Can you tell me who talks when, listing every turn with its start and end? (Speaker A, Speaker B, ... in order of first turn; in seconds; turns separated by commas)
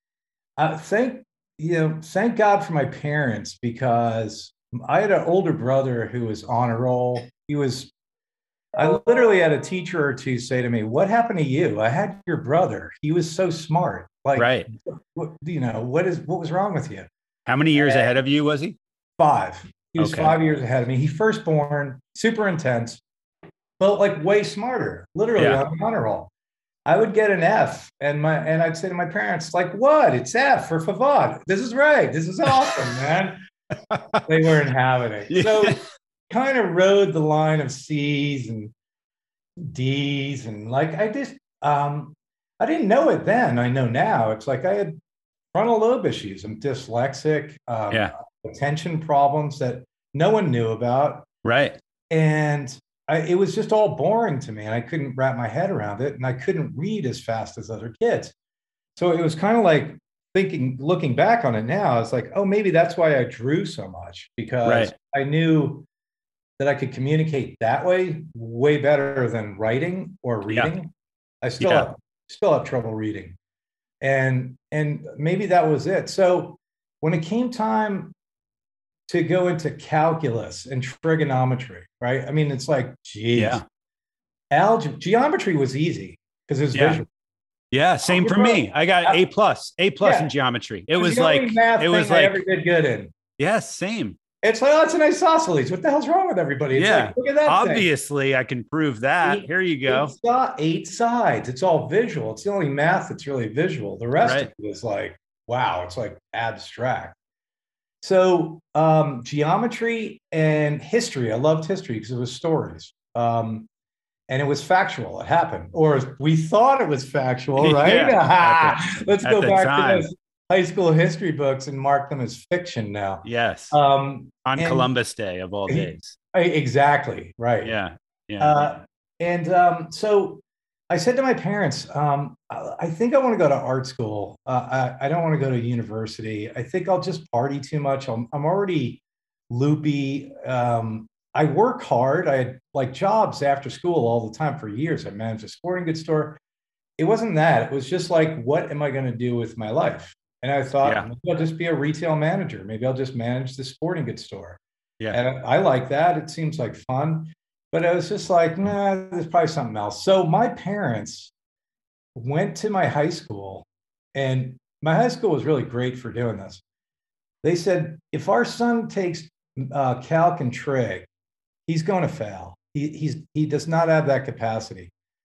Speaker A: 0.6-7.9, Speaker A: 8.7-17.1, Speaker B: 14.4-14.7, Speaker B: 17.4-18.8, Speaker A: 17.7-18.1, Speaker A: 19.2-23.0, Speaker B: 20.0-20.4, Speaker A: 23.8-26.3, Speaker B: 25.4-25.6, Speaker A: 26.9-33.4, Speaker B: 32.5-32.8, Speaker B: 33.9-34.2, Speaker A: 34.2-35.8, Speaker B: 35.3-35.8, Speaker A: 36.3-38.7, Speaker A: 39.6-45.0, Speaker A: 45.5-51.2, Speaker B: 51.4-51.8, Speaker A: 52.1-58.3, Speaker A: 59.0-65.8, Speaker B: 64.6-64.9, Speaker A: 66.6-73.4, Speaker B: 70.5-70.7, Speaker B: 71.6-71.9, Speaker A: 74.0-78.1, Speaker A: 79.1-83.6, Speaker B: 83.3-83.6, Speaker A: 84.5-87.1, Speaker B: 86.7-87.0, Speaker B: 87.7-92.4, Speaker A: 88.0-89.2, Speaker A: 90.0-90.3, Speaker A: 90.9-93.1, Speaker B: 93.4-94.2, Speaker A: 94.4-97.9, Speaker B: 96.7-100.1, Speaker A: 99.2-107.2, Speaker B: 104.2-104.5, Speaker A: 108.0-113.7, Speaker A: 114.3-124.9, Speaker B: 117.6-120.1, Speaker B: 123.2-123.8, Speaker B: 124.4-126.2, Speaker A: 125.7-127.7, Speaker B: 127.6-128.7, Speaker A: 128.4-146.4, Speaker A: 147.0-154.6, Speaker A: 155.1-161.3, Speaker A: 162.1-166.6, Speaker A: 167.4-171.1, Speaker A: 171.7-174.9